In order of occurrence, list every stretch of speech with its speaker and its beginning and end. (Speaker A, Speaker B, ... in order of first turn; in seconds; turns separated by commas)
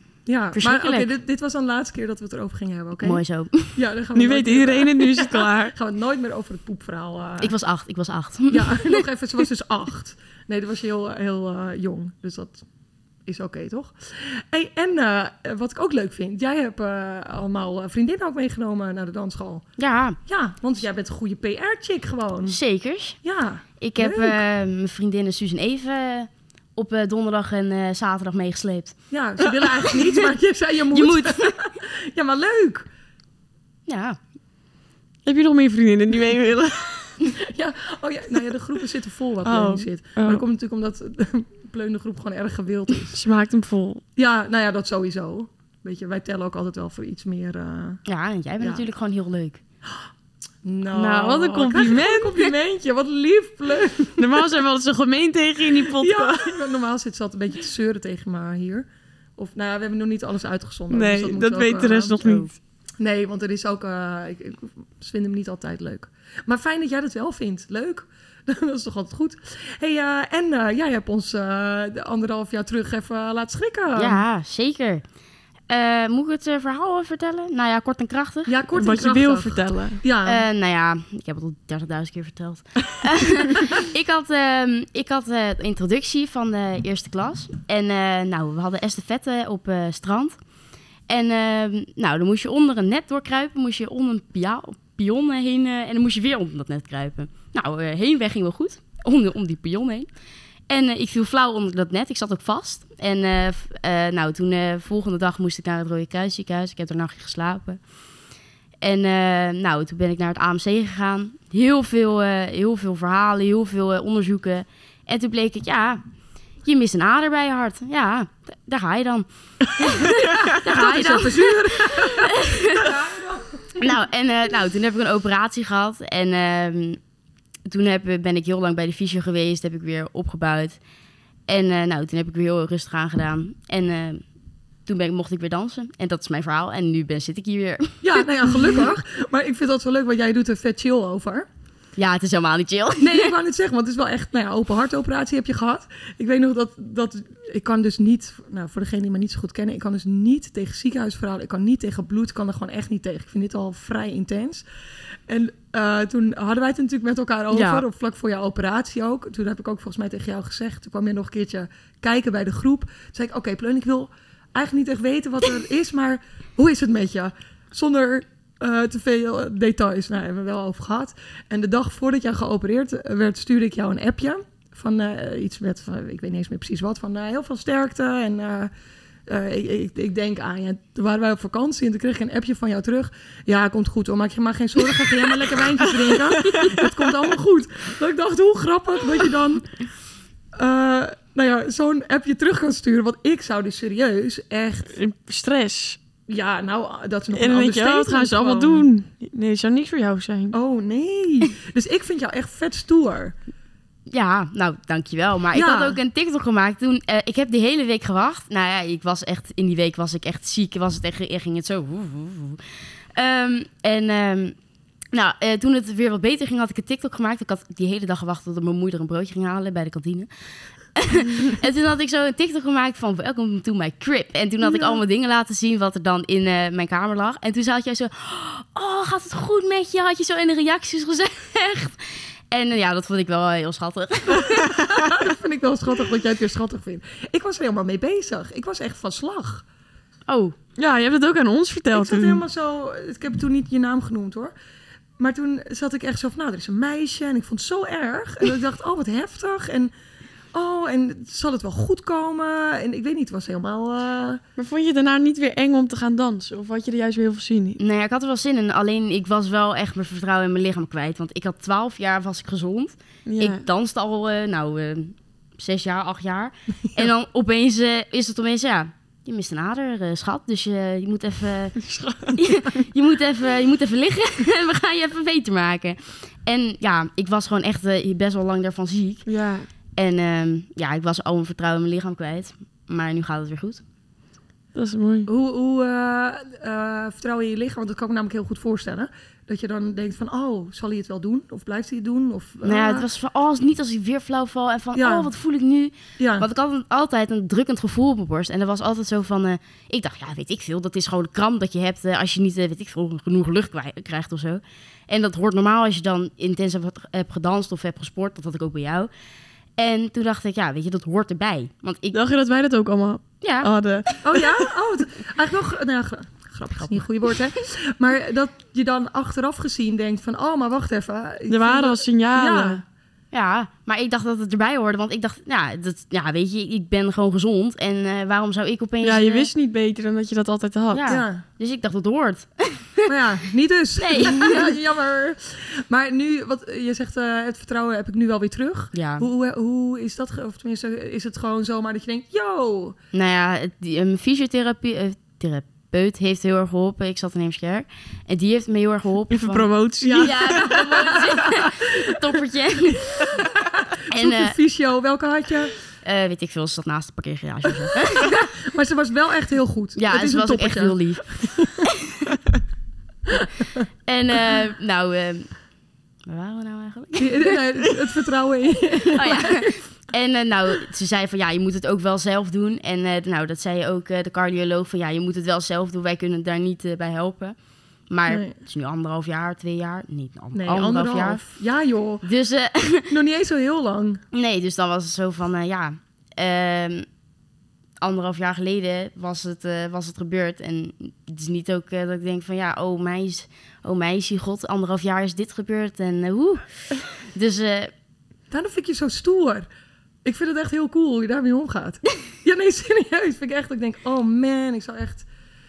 Speaker A: 0.2-3.2, Speaker B: 0.5-1.1, Speaker B: 3.0-3.8, Speaker A: 3.7-7.5, Speaker C: 4.1-5.7, Speaker B: 7.4-9.0, Speaker A: 8.5-12.6, Speaker A: 13.3-19.6, Speaker B: 19.8-20.2, Speaker A: 20.2-22.6, Speaker B: 22.5-23.2, Speaker A: 23.2-24.4, Speaker B: 23.8-29.0, Speaker A: 29.1-32.9, Speaker B: 30.9-31.5, Speaker B: 33.9-34.2, Speaker C: 35.2-37.1, Speaker A: 37.4-43.2, Speaker C: 39.4-40.4, Speaker C: 43.1-44.0, Speaker A: 44.1-48.0, Speaker B: 48.0-49.6, Speaker A: 48.6-48.9, Speaker A: 50.6-54.2, Speaker C: 50.9-52.5, Speaker C: 54.2-56.6, Speaker A: 55.8-58.9, Speaker A: 59.4-62.4, Speaker C: 60.9-62.5, Speaker B: 62.2-62.5, Speaker A: 63.0-74.2, Speaker B: 74.0-75.0, Speaker B: 75.7-78.5, Speaker A: 78.5-80.4, Speaker C: 78.7-80.0, Speaker B: 80.2-90.3, Speaker B: 91.1-100.1, Speaker B: 100.7-107.8, Speaker B: 108.8-116.0, Speaker B: 116.6-122.9, Speaker A: 119.8-123.8, Speaker B: 123.8-127.0, Speaker B: 127.7-130.8, Speaker B: 131.5-134.2, Speaker B: 134.8-138.8, Speaker A: 138.0-141.5, Speaker B: 141.9-143.3, Speaker A: 143.0-154.6, Speaker A: 155.3-178.7, Speaker B: 157.5-157.8, Speaker A: 179.3-189.8, Speaker C: 184.9-187.1, Speaker A: 190.5-194.9, Speaker C: 194.9-196.0, Speaker A: 196.3-198.9, Speaker C: 197.3-200.6, Speaker A: 200.5-203.3, Speaker B: 204.1-212.6, Speaker A: 205.5-206.0, Speaker B: 213.1-214.5, Speaker B: 215.1-220.3, Speaker B: 220.9-234.8, Speaker A: 234.7-239.6, Speaker B: 240.3-240.5, Speaker C: 240.8-242.4, Speaker A: 241.9-244.5, Speaker A: 245.2-249.9, Speaker A: 250.5-254.4, Speaker C: 254.6-257.8, Speaker B: 257.8-271.8, Speaker C: 263.2-263.6, Speaker C: 271.8-272.8, Speaker B: 272.3-279.3, Speaker C: 279.2-279.7, Speaker B: 279.9-283.8, Speaker C: 284.7-285.3, Speaker A: 285.3-293.1, Speaker B: 292.6-309.1, Speaker A: 294.9-295.3, Speaker A: 296.2-296.4, Speaker B: 309.8-312.2, Speaker C: 312.1-314.7, Speaker B: 313.4-313.7, Speaker A: 314.2-322.8, Speaker C: 321.5-322.8, Speaker B: 323.3-329.5, Speaker C: 329.0-331.1, Speaker B: 330.9-333.1, Speaker A: 331.1-331.4, Speaker A: 333.1-343.0, Speaker B: 334.0-334.7, Speaker B: 338.9-339.2, Speaker B: 343.1-353.3, Speaker C: 349.3-350.8, Speaker A: 350.0-351.9, Speaker A: 354.1-355.7, Speaker B: 354.1-354.6, Speaker B: 356.0-358.4, Speaker A: 358.2-361.7, Speaker B: 360.0-361.4, Speaker A: 363.3-363.8, Speaker B: 364.1-365.6, Speaker B: 366.3-367.9, Speaker A: 367.2-369.6, Speaker B: 369.1-377.6, Speaker B: 378.1-381.4, Speaker A: 378.3-378.6, Speaker A: 380.5-382.2, Speaker B: 382.2-383.1, Speaker A: 383.1-384.2, Speaker B: 384.3-387.1, Speaker B: 388.0-397.9, Speaker A: 398.5-399.6, Speaker A: 400.2-405.3